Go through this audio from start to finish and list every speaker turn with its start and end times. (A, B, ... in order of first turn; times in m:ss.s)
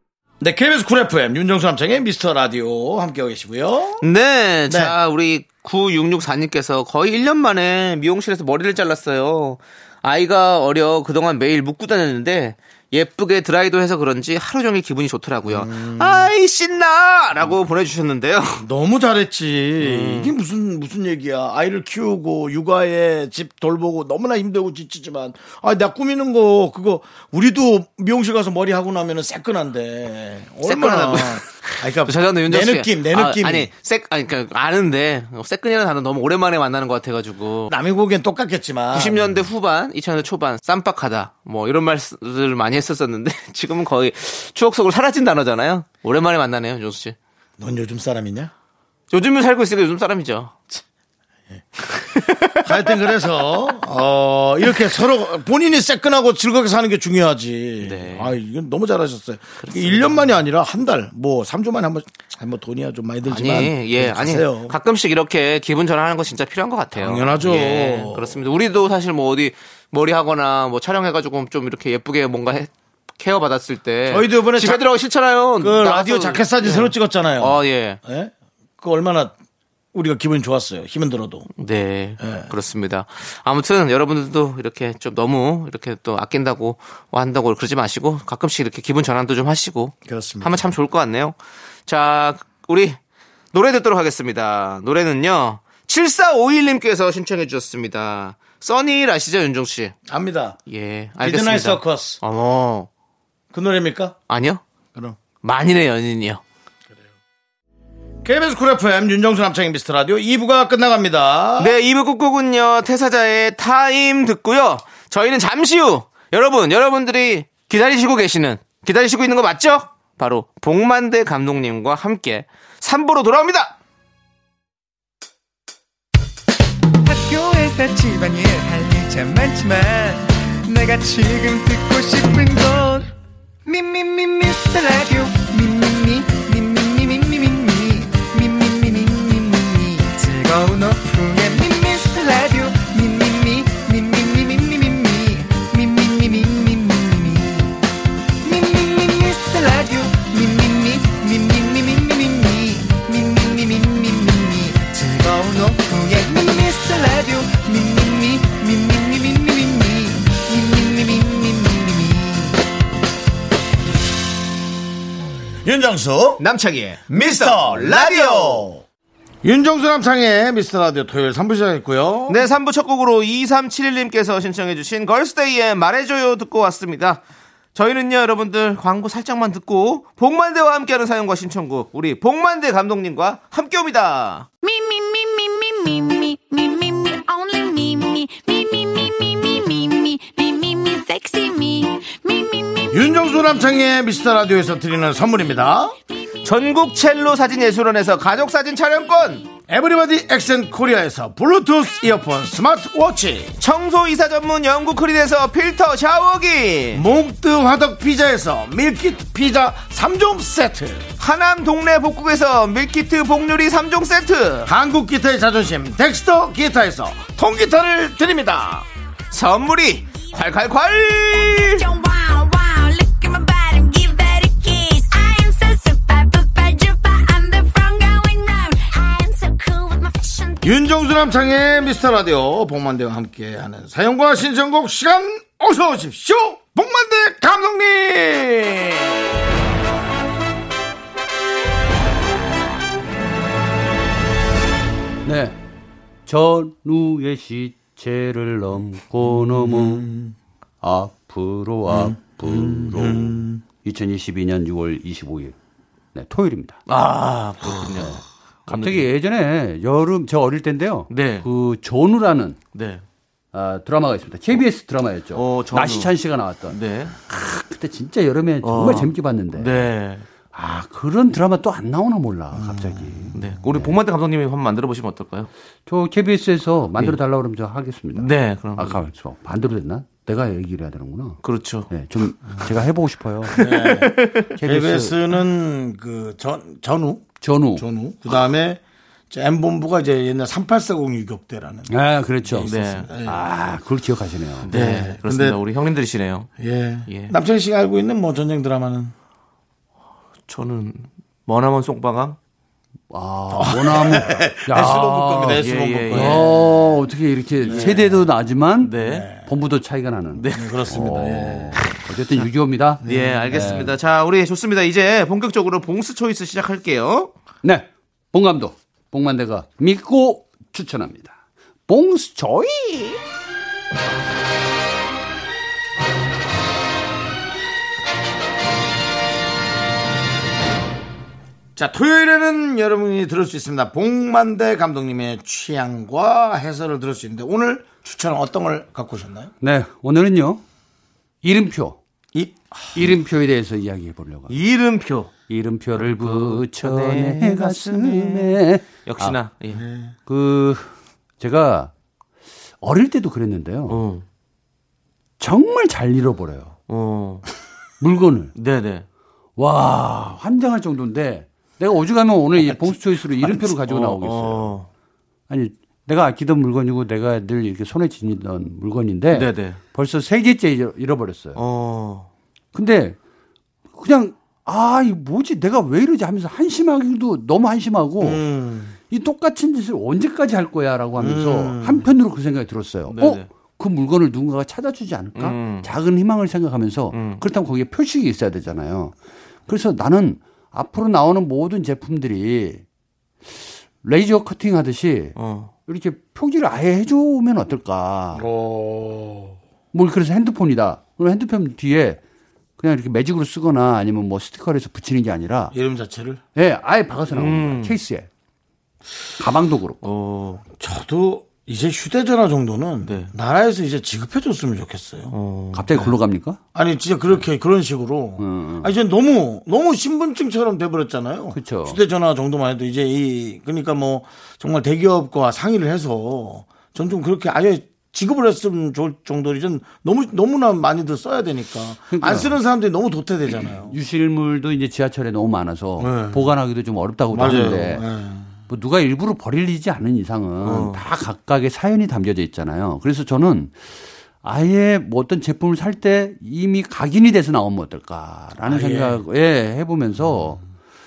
0:00.4-0:04.0 A
0:04.0-0:18.6 B
0:04.7-0:04.9 A
0:15.4-0:16.3 A
0:18.6-0:33.7 A
0:19.8-0:20.3 B
0:30.6-0:37.7 B
0:37.7-0:39.4 A
0:38.9-0:47.2 B
0:47.6-0:48.5 A
0:49.1-0:50.8 B
0:52.1-0:52.7 B
0:52.5-1:04.8 A
0:57.8-0:58.3 B
0:59.6-1:00.3 B
1:03.2-1:18.0 B
1:07.0-1:08.4 A
1:14.1-1:14.9 A
1:15.6-1:19.3 A
1:19.9-1:21.5 A
1:21.6-1:31.4 B
1:22.2-1:22.5 A
1:30.0-1:30.7 A
1:31.9-1:33.0 B
1:33.5-1:39.9 B
1:40.1-1:40.6 A
1:40.7-1:42.9 B
1:41.2-1:42.2 A
1:43.5-1:44.2 A
1:44.3-1:44.6 B
1:45.4-1:46.4 B
1:48.2-1:51.7 A
1:51.6-2:03.7 B
2:07.0-2:13.1 C
2:13.6-2:27.8 C
2:28.4-2:42.6 C
2:45.6-2:46.4 A
2:46.4-2:48.7 B
2:47.1-2:48.8 A
2:49.4-2:52.4 A
2:52.3-2:57.2 B
2:57.7-3:04.5 B
3:04.6-3:12.9 D
3:12.9-3:16.0 A
3:16.4-3:19.5 B
3:19.7-3:23.5 A
3:23.6-3:27.0 B
3:26.9-3:31.1 A
3:31.2-3:34.7 B
3:34.6-3:38.8 A
3:39.3-3:41.9 B
3:41.5-3:50.7 D
3:50.6-3:59.2 A
4:05.2-4:05.6 E
4:06.2-4:10.1 E
4:09.2-4:10.3 A
4:10.8-4:15.5 E
4:11.9-4:13.6 A
4:16.1-4:16.8 E
4:16.9-4:19.1 B
4:17.9-4:22.6 E
4:21.1-4:21.5 B
4:22.7-4:23.0 B
4:23.5-4:29.8 E
4:25.3-4:26.1 B
4:26.7-4:27.1 B
4:28.6-4:30.2 B
4:30.5-4:33.9 E
4:32.6-4:33.0 A
4:33.3-4:35.5 B
4:35.8-4:41.4 E
4:38.1-4:39.0 B
4:41.4-4:41.9 B
4:41.9-4:43.7 E
4:43.5-4:44.5 B
4:43.6-4:53.4 A
4:44.6-4:45.2 E
4:47.4-4:47.8 E
4:51.9-4:54.7 E
4:52.6-4:53.1 B
4:54.6-4:56.5 B
4:54.7-4:55.6 A
4:56.6-4:59.1 A
4:57.1-4:57.4 B
5:00.5-5:02.4 B
5:03.1-5:14.0 E
5:03.5-5:06.9 A
5:05.5-5:06.5 B
5:07.6-5:08.2 A
5:07.7-5:07.9 B
5:08.8-5:09.3 B
5:09.0-5:09.5 A
5:10.3-5:10.7 B
5:10.5-5:11.8 A
5:13.0-5:13.6 A
5:13.0-5:17.3 B
5:17.6-5:21.3 E
5:21.9-5:23.2 E
5:31.8-5:39.5 A
5:39.6-5:40.6 E
5:41.4-5:42.0 E
5:42.3-5:43.0 A
5:42.9-5:44.5 E
5:44.5-5:45.3 B
5:45.5-5:49.4 E
5:46.0-5:49.8 B
5:49.8-5:50.1 A
5:50.3-5:50.9 E
5:51.4-5:51.9 E
5:52.8-5:54.0 E
5:53.9-5:54.2 B
5:55.4-5:56.7 E
5:56.9-5:57.4 B
5:58.0-5:58.5 E
5:58.5-5:59.0 B
5:59.6-6:04.8 E
6:03.8-6:04.9 B
6:05.5-6:11.6 E
6:09.3-6:09.8 B
6:11.5-6:12.3 B
6:12.7-6:13.2 E
6:13.9-6:18.4 E
6:18.2-6:19.0 A
6:19.1-6:29.1 E
6:21.2-6:22.1 A
6:23.1-6:23.5 B
6:25.4-6:25.9 B
6:27.1-6:27.4 B
6:29.7-6:32.8 E
6:34.0-6:38.4 E
6:35.4-6:35.7 B
6:38.3-6:39.6 A
6:39.9-6:42.2 E
6:42.8-6:45.7 E
6:45.7-6:46.4 A
6:46.5-6:48.3 E
6:47.3-6:48.0 B
6:49.4-6:50.0 E
6:50.0-6:50.6 B
6:50.8-6:55.3 A
6:53.0-6:53.3 B
6:55.3-6:56.1 B
6:55.7-6:56.6 E
6:56.7-7:13.9 A
6:58.4-6:58.9 E
7:01.5-7:02.0 E
7:12.1-7:12.6 E
7:13.9-7:18.0 E
7:16.0-7:16.5 A
7:17.3-7:18.5 A
7:18.7-7:30.6 E
7:20.6-7:21.0 B
7:28.6-7:29.2 A